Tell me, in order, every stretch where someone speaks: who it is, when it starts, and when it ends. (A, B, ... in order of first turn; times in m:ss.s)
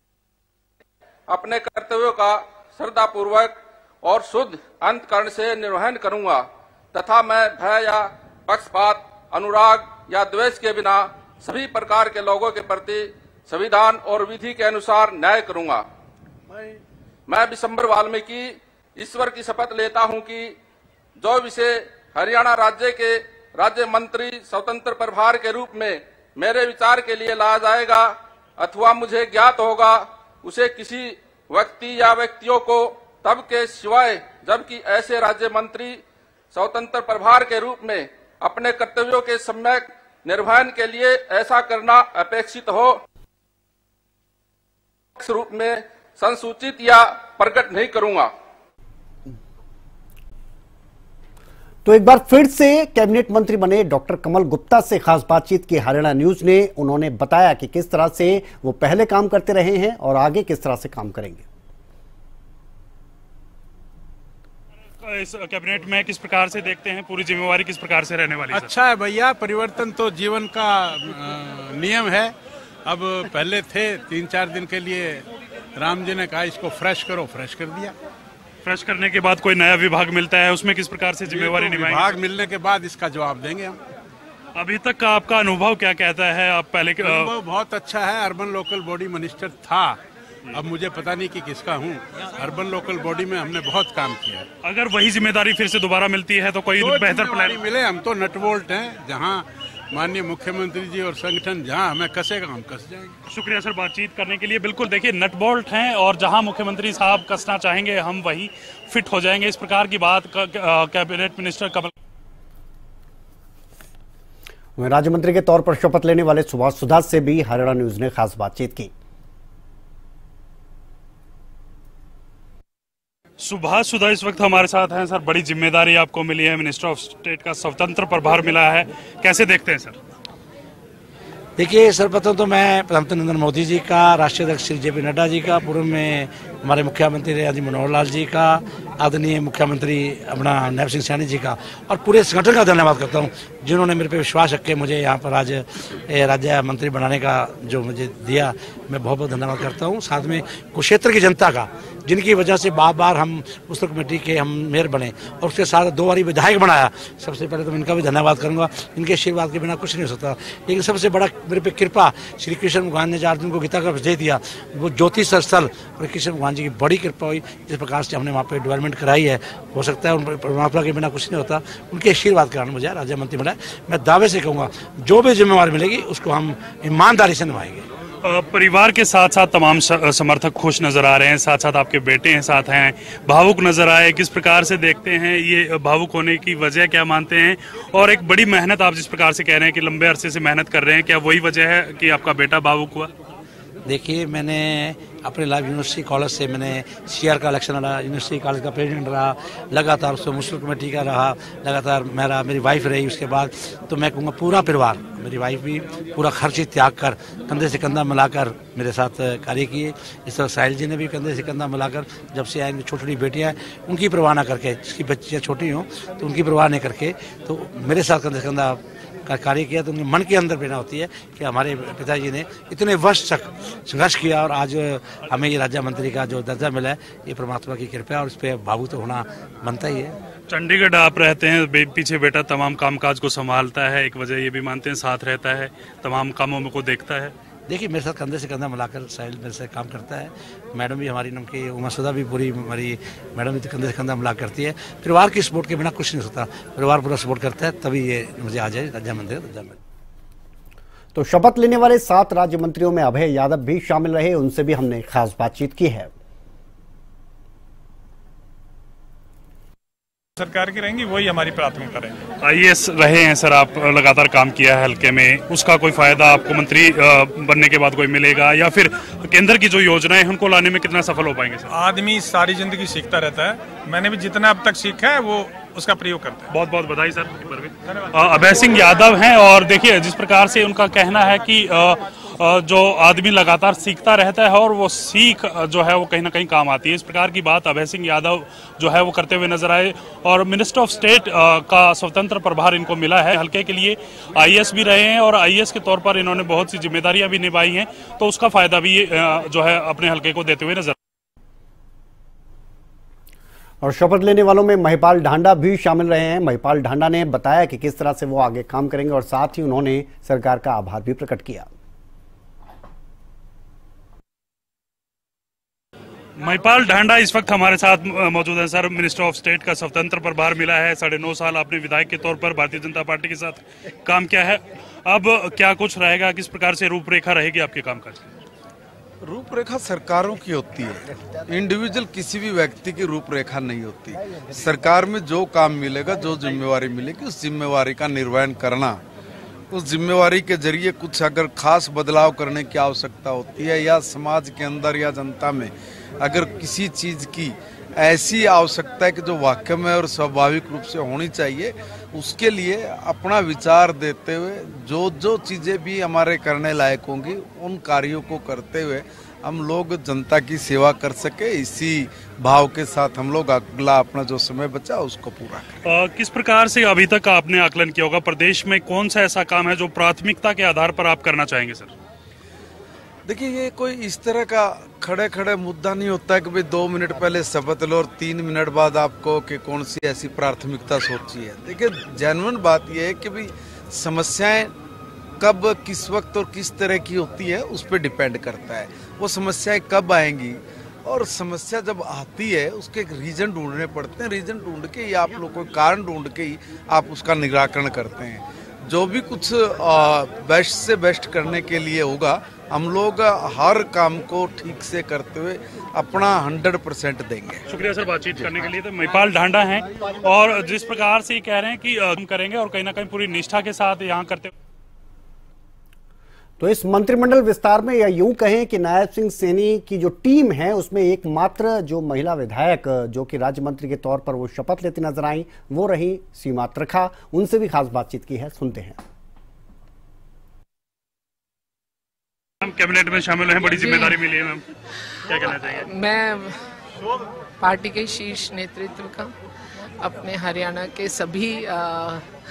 0:01.3-0:15.8 A
0:17.3-0:20.6 A
0:21.2-0:43.0 A
0:45.2-0:48.3 A
0:51.8-1:01.4 B
1:05.0-1:08.7 C
1:08.5-1:12.3 D
1:12.9-1:17.9 D
1:18.6-1:22.1 C
1:21.3-1:23.8 D
1:24.5-1:27.3 C
1:27.0-1:30.0 D
1:30.5-1:34.5 D
1:34.6-1:37.6 C
1:36.8-1:43.1 D
1:43.3-1:51.9 C
1:54.8-1:58.9 B
2:03.4-2:10.0 C
2:11.6-2:57.9 E
2:58.2-3:13.1 C
3:13.9-3:50.2 E
3:50.5-3:57.3 C
3:57.7-4:09.8 E
4:11.1-4:16.1 B
4:20.4-4:22.2 F
4:22.4-4:31.7 C
4:31.7-4:36.5 F
4:36.5-5:01.0 C
5:03.8-5:11.7 B
5:16.4-5:28.3 C
5:29.2-5:39.0 G
5:39.7-6:05.8 G
6:05.8-6:11.9 C
6:13.2-6:24.7 G
6:25.4-6:47.7 G
6:47.7-6:54.5 C
6:56.6-7:09.0 B
7:12.6-7:14.6 C
7:13.8-7:14.2 H
7:15.3-7:15.9 C
7:15.6-7:16.6 H
7:17.6-7:19.3 H
7:20.0-7:22.2 H